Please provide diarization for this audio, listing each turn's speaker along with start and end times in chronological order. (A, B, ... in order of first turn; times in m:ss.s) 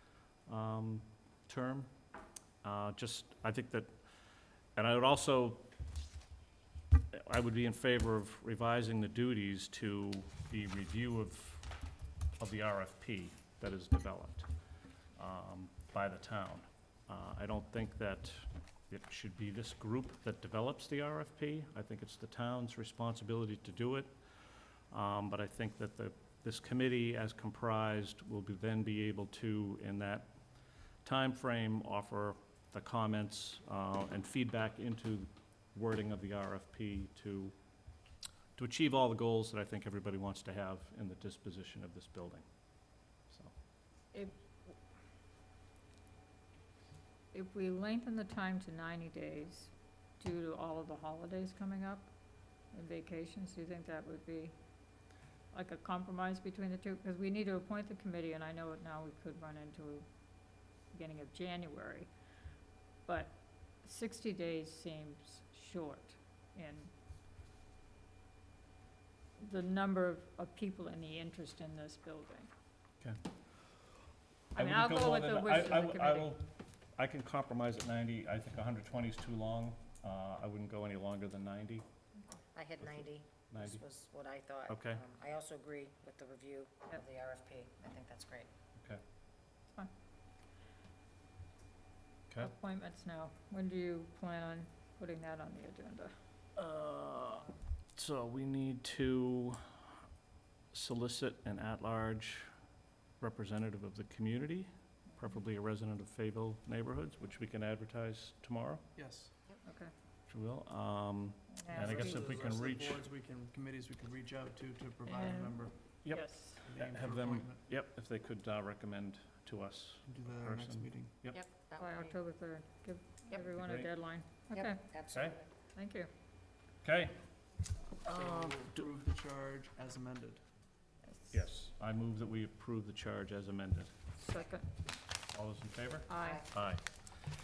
0:00.5-0:01.9 A
0:02.6-0:03.9 A
0:04.7-0:05.7 A
0:07.1-0:11.7 A
0:12.4-0:14.5 A
0:15.2-0:24.1 A
0:24.9-0:30.3 A
0:31.0-0:37.5 A
0:38.6-0:42.4 A
0:47.3-0:52.1 B
0:52.7-0:54.5 B
0:55.5-1:00.1 B
1:00.9-1:02.1 B
1:03.0-1:06.9 B
1:09.4-1:12.5 B
1:14.5-1:16.3 B
1:14.6-1:21.8 A
1:22.5-1:28.5 C
1:22.8-1:23.8 A
1:24.7-1:25.0 A
1:28.8-1:29.0 A
1:32.4-1:36.1 B
1:36.6-1:39.6 A
1:40.7-1:42.5 A
1:43.2-1:48.8 A
1:49.0-1:49.3 D
1:49.6-1:49.9 B
1:50.3-1:53.0 A
1:51.5-1:52.1 B
1:51.7-1:55.7 D
1:55.1-1:55.6 B
1:56.0-2:01.4 A
1:56.1-1:56.6 B
1:56.6-1:57.6 D
2:00.1-2:01.1 D
2:01.3-2:02.2 C
2:01.8-2:04.8 B
2:03.4-2:03.9 A
2:04.5-2:05.5 C
2:05.1-2:05.4 A
2:05.7-2:06.1 B
2:06.8-2:07.2 A
2:08.0-2:10.4 D
2:08.1-2:08.6 A
2:11.0-2:11.3 B
2:11.3-2:13.9 A
2:14.2-2:14.7 B
2:15.3-2:16.8 A
2:16.1-2:16.5 B
2:16.2-2:16.5 C